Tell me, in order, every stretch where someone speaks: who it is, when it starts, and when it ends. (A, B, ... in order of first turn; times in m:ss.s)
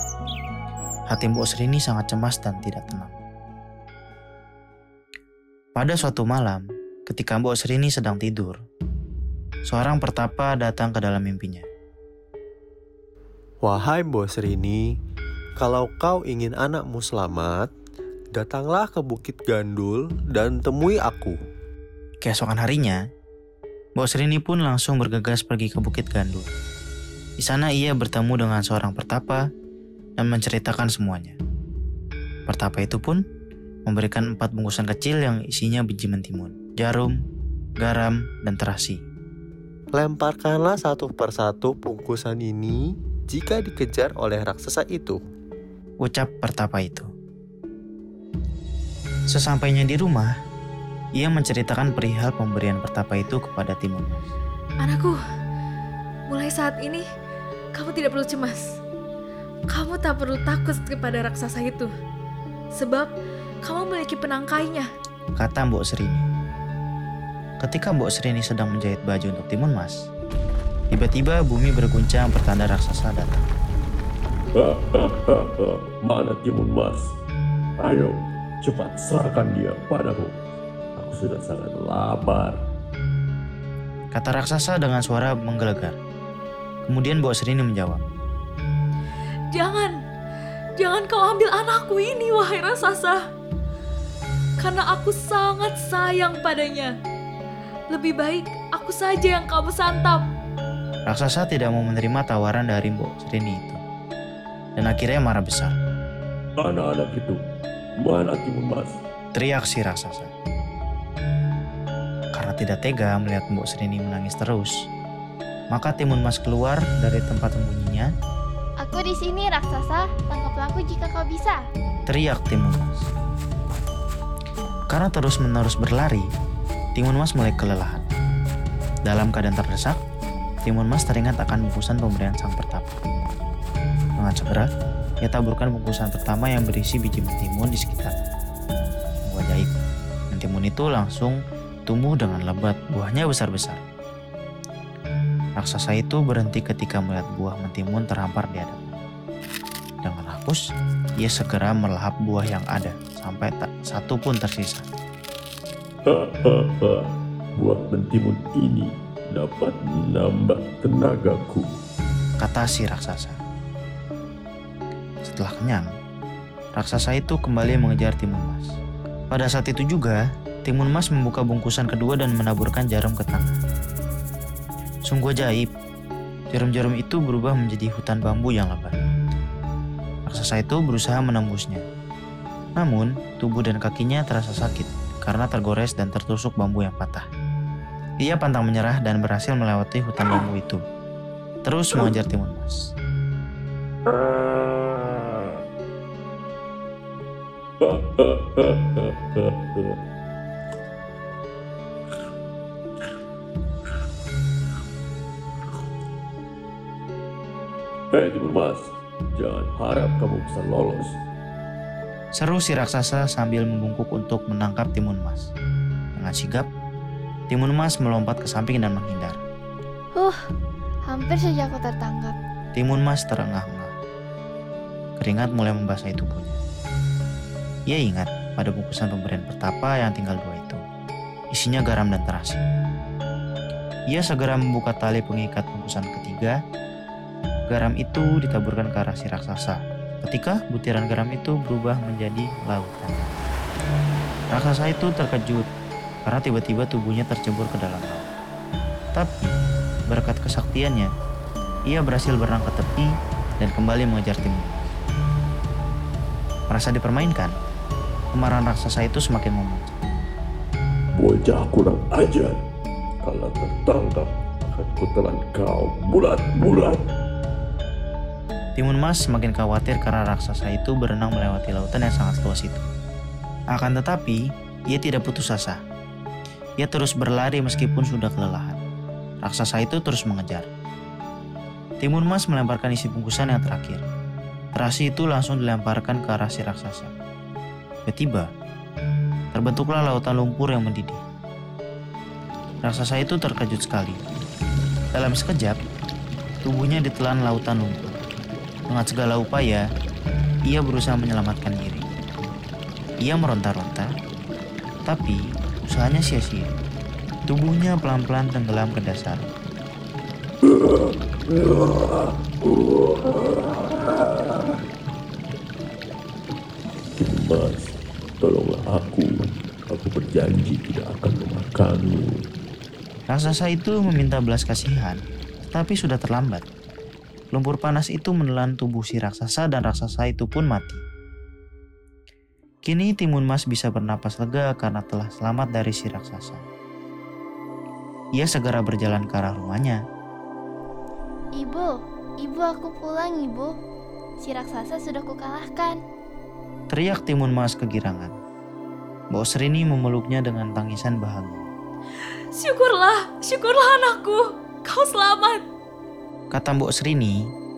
0:01.1-0:03.2 A
0:05.8-0:08.6 A
0:09.7-0:11.7 A
0:13.6-0:15.0 B
0:15.6-0:17.7 B
0:18.3-0:21.4 B
0:22.2-0:23.0 A
0:24.0-0:26.5 A
0:27.4-0:29.4 A
0:30.2-0:31.4 A
0:32.5-0:33.2 A
0:33.9-0:37.2 A
0:37.8-0:39.0 A
0:40.0-0:45.2 B
0:46.0-0:47.1 A
0:49.3-0:50.3 A
0:51.2-0:54.3 A
0:54.8-0:55.2 C
0:56.3-0:57.0 C
0:57.8-0:58.7 C
0:59.7-1:01.9 C
1:02.8-1:03.1 C
1:03.6-1:04.9 C
1:05.4-1:06.3 A
1:07.6-1:10.1 A
1:10.9-1:13.5 A
1:14.6-1:17.1 D
1:17.8-1:20.3 D
1:21.0-1:22.6 D
1:24.1-1:26.0 A
1:26.9-1:28.0 A
1:29.5-1:29.9 C
1:30.8-1:33.2 C
1:34.6-1:36.9 C
1:37.9-1:40.2 C
1:41.1-1:43.8 A
1:44.8-1:45.8 A
1:46.6-1:47.4 D
1:48.0-1:49.0 D
1:49.3-1:50.3 A
1:52.4-1:54.7 A
1:55.7-1:58.1 A
1:58.8-2:01.6 E
2:02.1-2:03.1 A
2:04.9-2:06.3 A
2:07.0-2:08.1 A
2:09.1-2:10.0 A
2:10.7-2:13.1 A
2:14.2-2:14.7 A
2:15.2-2:18.2 A
2:19.3-2:19.8 A
2:20.3-2:23.8 A
2:25.6-2:29.0 A
2:30.0-2:30.6 A
2:31.2-2:34.9 A
2:36.1-2:41.7 D
2:42.4-2:43.4 A
2:45.2-2:45.9 A
2:46.8-2:48.7 A
2:49.3-2:53.6 A
2:55.1-2:55.7 A
2:56.5-2:59.4 A
3:00.3-3:01.8 A
3:02.8-3:07.3 A
3:08.2-3:10.8 A
3:11.6-3:12.9 A
3:14.1-3:15.6 D
3:17.8-3:20.0 D
3:28.1-3:31.1 D
3:32.4-3:35.5 A
3:36.2-3:36.7 A
3:37.5-3:39.4 A
3:40.1-3:40.4 E
3:41.0-3:42.4 E
3:42.8-3:43.9 A
3:45.2-3:46.6 A
3:47.9-3:50.8 A
3:51.5-3:52.7 A
3:54.1-3:56.6 A
3:57.7-4:03.4 A
4:04.5-4:05.7 A
4:06.3-4:08.3 A
4:09.2-4:09.5 A
4:10.1-4:11.1 A
4:11.9-4:15.0 A
4:16.7-4:17.5 A
4:18.3-4:20.1 A
4:21.2-4:22.6 D
4:23.2-4:27.0 D
4:28.8-4:32.8 A
4:33.7-4:35.8 A
4:36.8-4:38.8 A
4:39.4-4:40.7 A
4:42.0-4:44.0 A
4:44.8-4:47.1 A
4:48.1-4:48.5 A
4:49.5-4:51.2 A
4:52.8-4:54.2 A
4:55.2-4:55.8 A
4:56.6-4:58.2 A
4:58.9-4:59.8 A
5:00.7-5:02.1 A
5:03.2-5:04.1 A
5:05.1-5:06.8 A
5:07.5-5:09.5 A
5:10.7-5:14.8 D
5:17.2-5:22.3 D
5:23.3-5:26.6 A
5:27.5-5:31.0 A
5:32.9-5:36.6 A
5:38.4-5:40.0 A
5:41.6-5:43.8 E
5:44.4-5:46.0 E
5:46.9-5:48.4 A
5:49.3-5:51.7 A
5:52.6-5:55.6 C
5:56.5-5:57.4 A